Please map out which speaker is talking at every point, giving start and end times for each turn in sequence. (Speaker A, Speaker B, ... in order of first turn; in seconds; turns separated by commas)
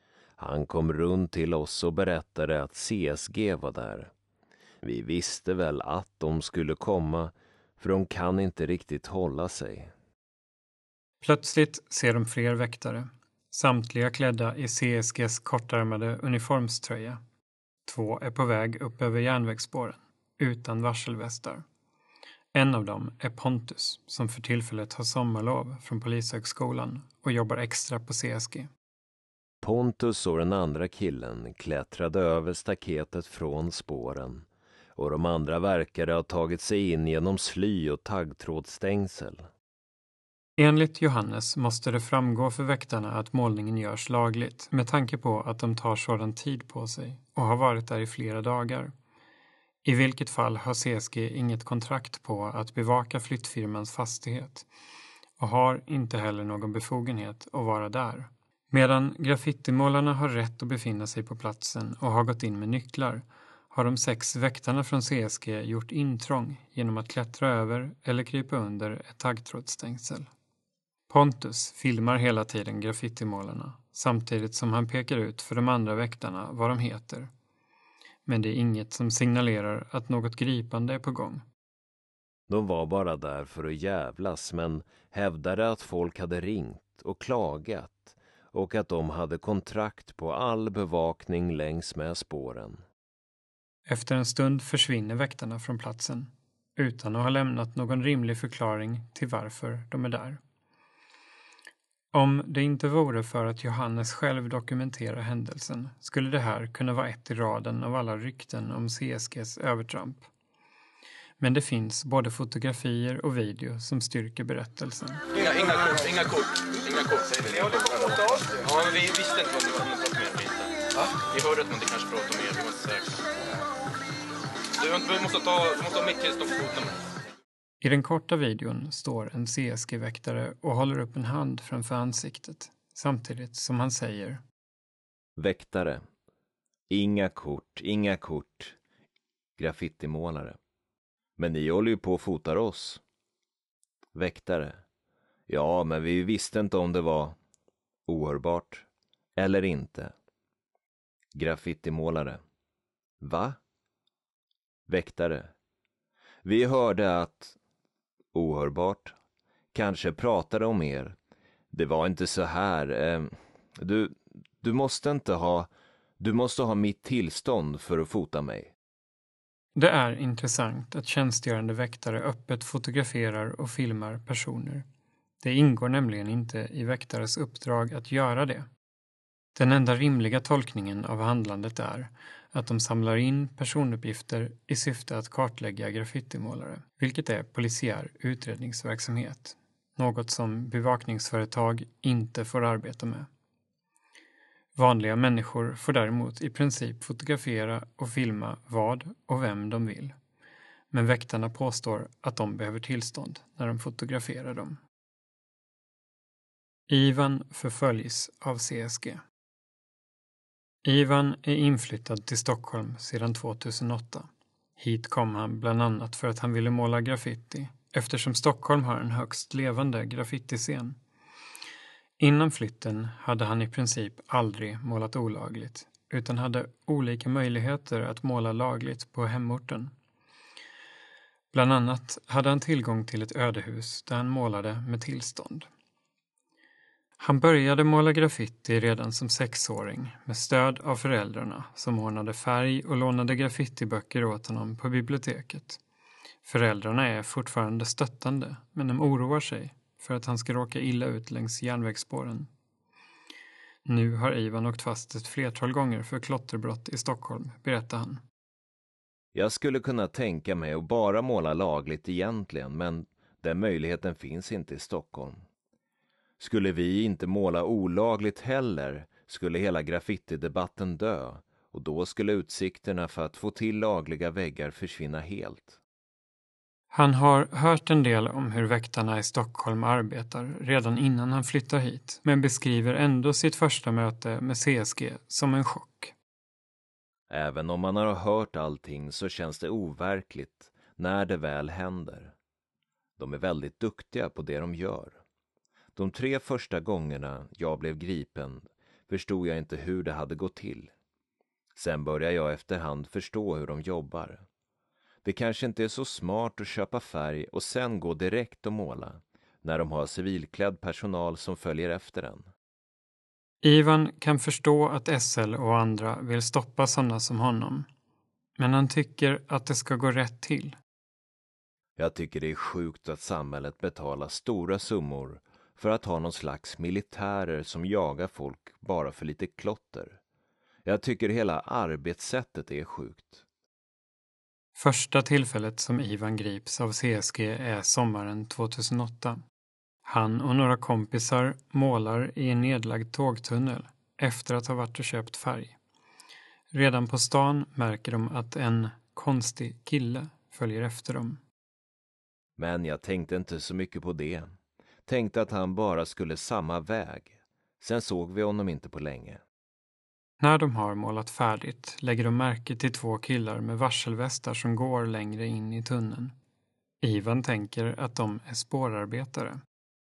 Speaker A: 0.4-4.1, Speaker A: 4.8-9.9, Speaker B: 11.2-17.2, Speaker B: 17.8-21.6, Speaker B: 22.5-28.7, Speaker A: 29.6-39.5, Speaker B: 40.6-48.9, Speaker B: 49.8-54.7, Speaker B: 55.4-70.3, Speaker B: 71.1-77.3, Speaker B: 78.2-81.4, Speaker A: 82.5-92.8, Speaker B: 93.8-100.4, Speaker B: 102.1-110.3, Speaker B: 111.4-115.2, Speaker C: 115.3-123.2, Speaker C: 124.8-127.0, Speaker B: 127.8-134.4, Speaker A: 135.4-136.0, Speaker A: 136.9-138.8, Speaker A: 139.6-140.6, Speaker A: 141.4-143.0, Speaker A: 144.1-144.8, Speaker A: 145.5-147.3, Speaker A: 148.1-150.1, Speaker A: 151.3-152.4, Speaker A: 153.2-153.6, Speaker A: 154.9-155.5, Speaker A: 156.4-157.6, Speaker A: 158.3-159.1, Speaker A: 159.7-161.2, Speaker A: 161.7-168.7, Speaker B: 169.8-174.8, Speaker B: 175.4-178.7, Speaker B: 179.5-193.3, Speaker B: 194.8-200.1, Speaker B: 200.9-204.8, Speaker B: 206.9-209.2, Speaker B: 210.8-221.0, Speaker B: 222.2-229.9, Speaker B: 231.5-235.7, Speaker B: 237.2-245.8, Speaker B: 246.4-252.5, Speaker B: 253.8-258.2, Speaker A: 259.3-265.4, Speaker A: 266.4-275.8, Speaker B: 276.9-286.1, Speaker A: 287.3-292.3, Speaker A: 293.2-295.2, Speaker A: 295.9-300.9, Speaker A: 301.7-304.4, Speaker A: 305.2-312.5, Speaker B: 313.6-317.9, Speaker B: 318.6-320.8, Speaker A: 322.0-330.2, Speaker A: 330.8-333.4, Speaker B: 334.8-339.4, Speaker B: 340.0-345.8, Speaker B: 346.7-351.4, Speaker A: 352.6-354.5, Speaker A: 355.1-359.4, Speaker B: 360.4-366.3, Speaker B: 367.0-369.6